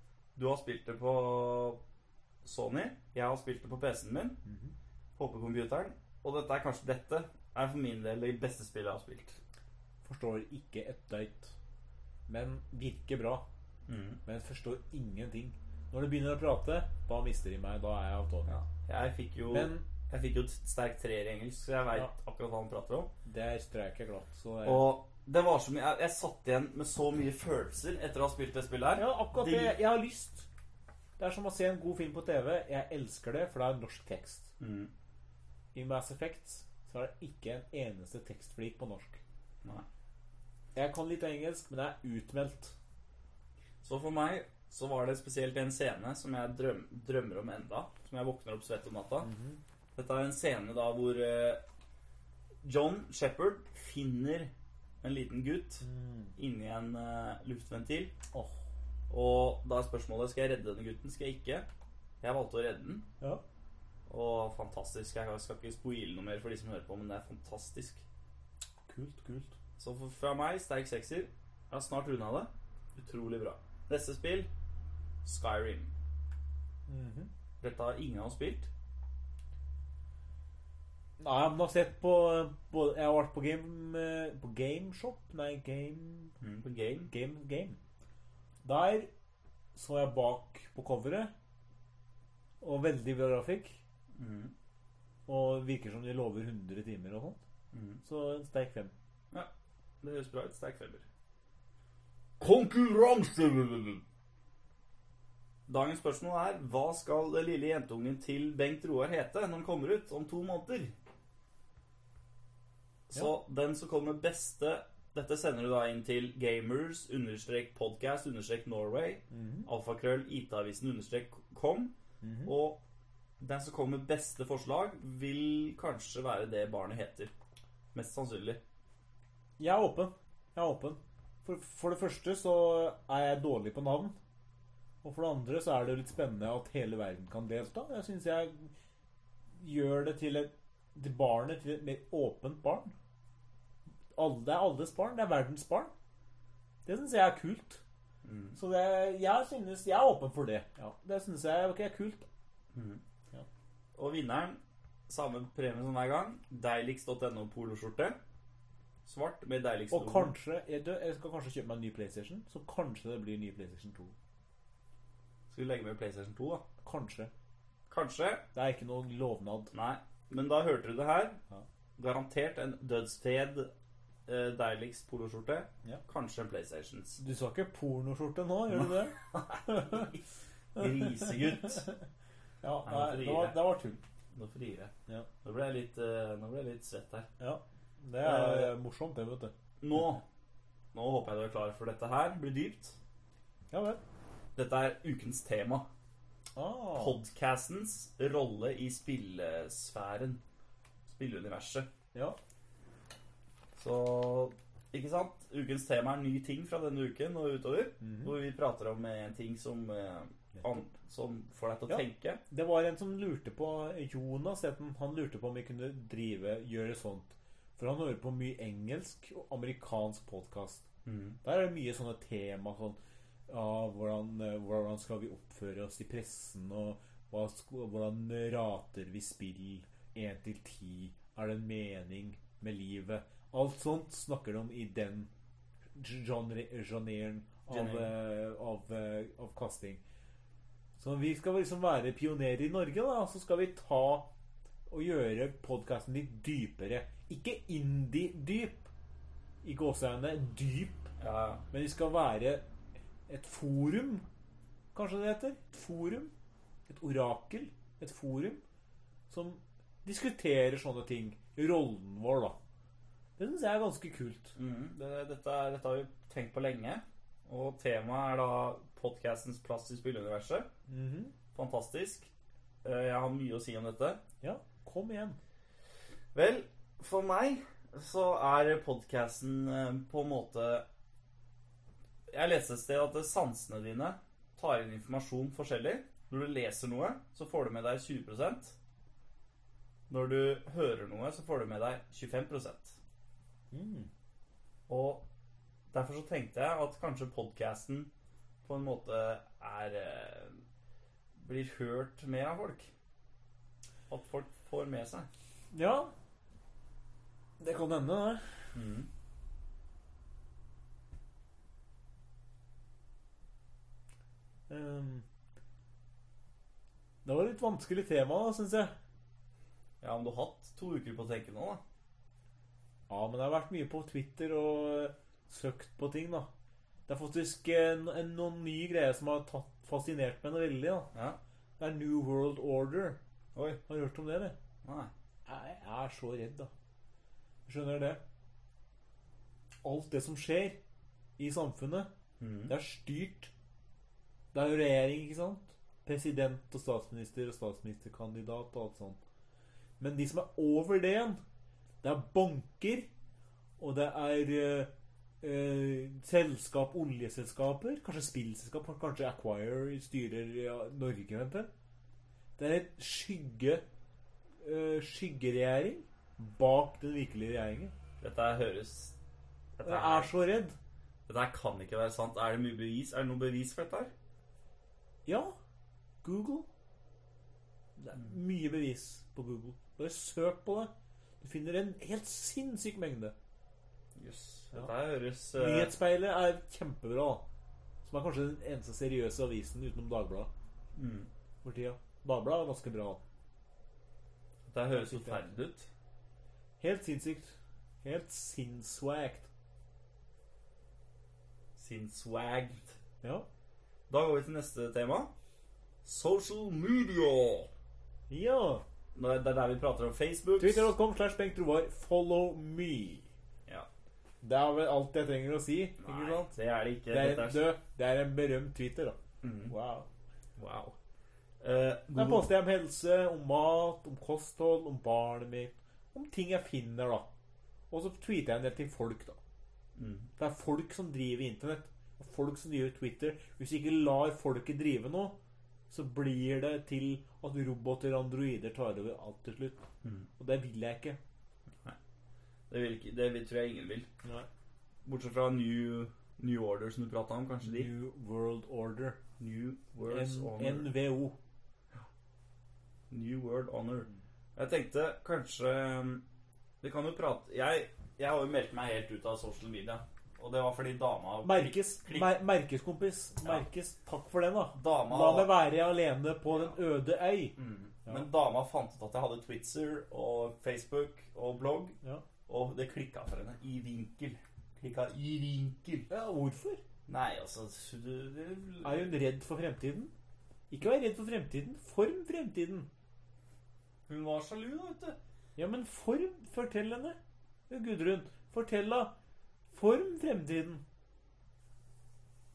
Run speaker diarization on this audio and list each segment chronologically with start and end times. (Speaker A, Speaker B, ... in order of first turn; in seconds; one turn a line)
Speaker A: 0.3-1.8
Speaker A: 2.4-4.4
Speaker B: 4.4-4.7
Speaker A: 5.2-9.4
Speaker B: 10.0-11.5
Speaker B: 12.3-13.4
Speaker A: 13.9-14.2
Speaker B: 14.2-18.6
Speaker A: 18.5-23.1
Speaker B: 19.5-19.9
Speaker B: 23.2-24.9
Speaker A: 24.6-29.8
Speaker B: 29.0-30.5
Speaker B: 31.2-34.5
Speaker A: 34.6-34.9
Speaker B: 35.7-39.2
Speaker B: 40.7-42.8
Speaker A: 43.8-49.3
Speaker B: 49.2-49.6
Speaker A: 50.0-51.6
Speaker A: 52.6-54.5
Speaker A: 55.0-55.9
Speaker B: 55.8-56.3
Speaker A: 56.4-58.1
Speaker B: 58.3-58.6
Speaker A: 59.1-61.7
Speaker A: 62.2-63.0
Speaker A: 64.1-68.0
Speaker B: 68.9-69.5
Speaker A: 69.8-74.5
Speaker A: 75.2-75.9
Speaker B: 76.9-77.3
Speaker A: 77.6-78.7
Speaker B: 81.2-86.3
Speaker A: 86.4-87.1
Speaker B: 87.1-87.8
Speaker B: 88.6-89.1
Speaker B: 89.7-91.3
Speaker B: 92.6-93.8
Speaker A: 94.1-94.5
Speaker B: 95.3-97.4
Speaker A: 97.7-98.0
Speaker B: 98.0-98.9
Speaker A: 100.0-101.0
Speaker A: 102.4-104.0
Speaker A: 105.7-110.9
Speaker A: 113.1-121.9
Speaker B: 119.3-119.7
Speaker B: 122.2-122.5
Speaker A: 122.4-122.8
Speaker A: 123.4-127.3
Speaker A: 127.9-128.6
Speaker B: 129.6-134.2
Speaker B: 135.0-138.7
Speaker B: 139.6-142.9
Speaker B: 144.1-145.9
Speaker B: 146.8-147.8
Speaker A: 148.2-148.6
Speaker B: 148.6-152.2
Speaker A: 152.7-153.0
Speaker A: 153.9-158.2
Speaker A: 159.0-160.3
Speaker B: 159.9-164.1
Speaker A: 165.5-166.6
Speaker B: 166.8-167.3
Speaker A: 167.9-168.4
Speaker B: 168.5-169.7
Speaker A: 169.7-171.4
Speaker A: 172.0-173.7
Speaker A: 174.3-177.2
Speaker B: 177.2-180.1
Speaker A: 178.7-180.2
Speaker A: 180.7-181.9
Speaker B: 180.8-182.0
Speaker B: 182.6-184.0
Speaker A: 182.8-183.6
Speaker A: 184.3-184.9
Speaker A: 185.4-187.3
Speaker B: 187.4-189.5
Speaker A: 188.2-188.7
Speaker A: 189.8-190.2
Speaker A: 190.9-193.0
Speaker B: 193.7-194.0
Speaker A: 194.6-195.8
Speaker B: 196.6-197.2
Speaker A: 196.9-200.4
Speaker A: 201.1-201.9
Speaker A: 203.8-212.4
Speaker B: 208.0-208.3
Speaker B: 211.9-220.8
Speaker A: 221.0-221.4
Speaker B: 221.4-235.3
Speaker B: 235.9-240.0
Speaker A: 237.7-238.1
Speaker B: 241.0-244.3
Speaker B: 244.9-248.9
Speaker B: 249.6-251.1
Speaker A: 251.2-251.6
Speaker B: 251.7-252.6
Speaker B: 253.3-254.2
Speaker B: 254.9-256.3
Speaker B: 256.9-258.6
Speaker B: 259.3-262.6
Speaker B: 263.4-264.6
Speaker A: 264.6-270.7
Speaker B: 270.9-271.3
Speaker A: 271.5-272.3
Speaker A: 272.8-274.2
Speaker B: 274.4-275.4
Speaker A: 276.3-280.8
Speaker A: 282.3-288.7
Speaker A: 290.1-293.0
Speaker B: 293.7-294.1
Speaker A: 294.9-295.2
Speaker A: 295.9-298.1
Speaker A: 298.6-300.6
Speaker A: 301.4-302.9
Speaker A: 304.1-305.3
Speaker B: 305.7-306.1
Speaker B: 307.6-308.4
Speaker A: 308.7-309.1
Speaker B: 314.7-315.2
Speaker B: 317.2-318.9
Speaker A: 320.0-321.8
Speaker B: 323.1-326.5
Speaker B: 327.1-331.1
Speaker A: 331.1-331.4
Speaker B: 331.8-333.2
Speaker A: 333.5-333.8
Speaker B: 333.9-334.6
Speaker A: 334.8-335.1
Speaker B: 335.4-336.7
Speaker B: 337.6-338.2
Speaker B: 339.8-340.8
Speaker B: 341.4-342.1
Speaker A: 342.4-342.7
Speaker B: 342.7-343.5
Speaker B: 344.5-349.2
Speaker B: 350.0-351.4
Speaker B: 352.0-353.1
Speaker B: 353.8-361.7
Speaker B: 362.6-363.8
Speaker B: 364.6-367.9
Speaker A: 368.2-369.1
Speaker A: 369.8-370.3
Speaker B: 369.8-370.8
Speaker A: 371.3-374.1
Speaker B: 375.2-375.5
Speaker B: 376.2-376.7
Speaker B: 378.0-383.3
Speaker A: 384.1-385.9
Speaker B: 385.5-387.4
Speaker B: 388.0-390.5
Speaker A: 390.9-391.3
Speaker B: 391.6-393.2
Speaker A: 394.7-395.9
Speaker B: 394.9-395.5
Speaker B: 396.8-399.5
Speaker A: 401.8-403.0
Speaker B: 403.2-403.5
Speaker A: 404.1-405.3
Speaker A: 406.0-407.7
Speaker B: 408.3-408.8
Speaker A: 409.1-410.9
Speaker B: 410.6-413.3
Speaker B: 414.4-416.4
Speaker A: 416.0-417.7
Speaker B: 417.1-419.2
Speaker A: 419.4-419.7
Speaker B: 419.7-420.1
Speaker A: 420.6-420.9
Speaker A: 421.6-422.5
Speaker B: 422.1-427.3
Speaker B: 427.9-429.4
Speaker A: 429.9-430.3
Speaker B: 430.4-435.4
Speaker B: 435.9-439.8
Speaker A: 440.0-440.3
Speaker B: 440.4-441.2
Speaker A: 442.7-444.1
Speaker A: 445.1-447.9
Speaker B: 447.6-449.2
Speaker A: 449.4-450.9
Speaker B: 450.1-451.4
Speaker A: 453.1-456.2
Speaker A: 456.8-462.3
Speaker B: 461.4-468.3
Speaker A: 464.7-465.5
Speaker A: 466.5-466.8
Speaker A: 467.6-476.1
Speaker B: 476.1-476.8
Speaker A: 477.1-479.1
Speaker B: 478.8-480.1
Speaker B: 480.7-482.9
Speaker A: 484.1-485.2
Speaker B: 485.6-487.2
Speaker B: 487.7-489.1
Speaker B: 489.7-490.8